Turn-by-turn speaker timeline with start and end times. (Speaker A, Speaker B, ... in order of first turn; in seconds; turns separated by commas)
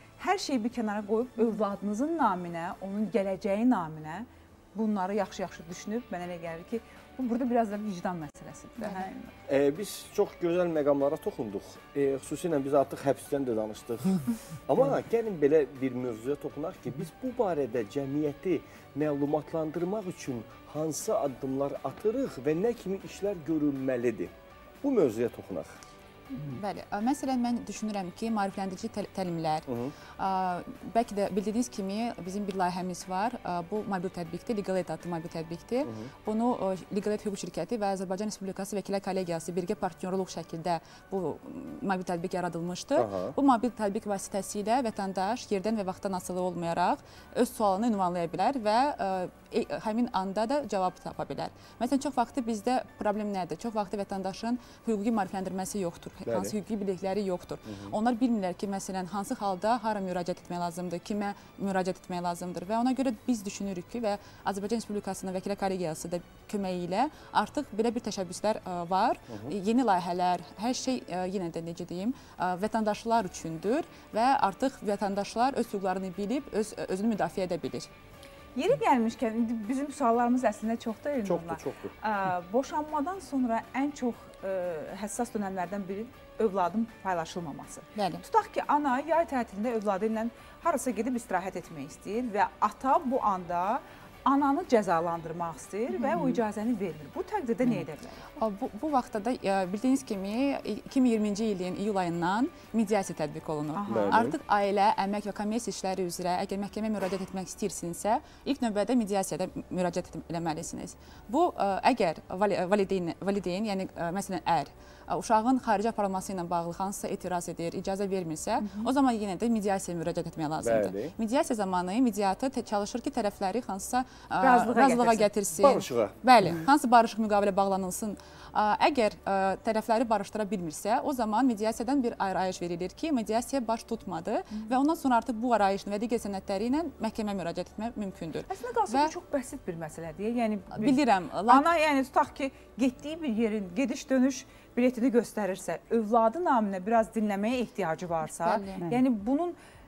Speaker A: 0.2-9.3, Speaker B: 9.5-24.3, Speaker B: 24.8-25.8, Speaker C: 26.3-77.9, Speaker B: 29.7-29.9, Speaker B: 35.8-36.1, Speaker B: 43.0-43.4, Speaker B: 56.3-56.6, Speaker B: 57.7-58.0, Speaker A: 78.5-98.3, Speaker B: 81.2-81.9, Speaker C: 88.0-88.2, Speaker C: 95.9-96.4, Speaker C: 98.4-139.1, Speaker A: 103.8-104.2, Speaker B: 103.9-104.4, Speaker A: 118.6-118.9, Speaker B: 120.6-121.1, Speaker A: 124.4-125.3, Speaker B: 125.6-126.5, Speaker A: 138.5-149.6, Speaker C: 140.7-141.7, Speaker C: 148.3-148.8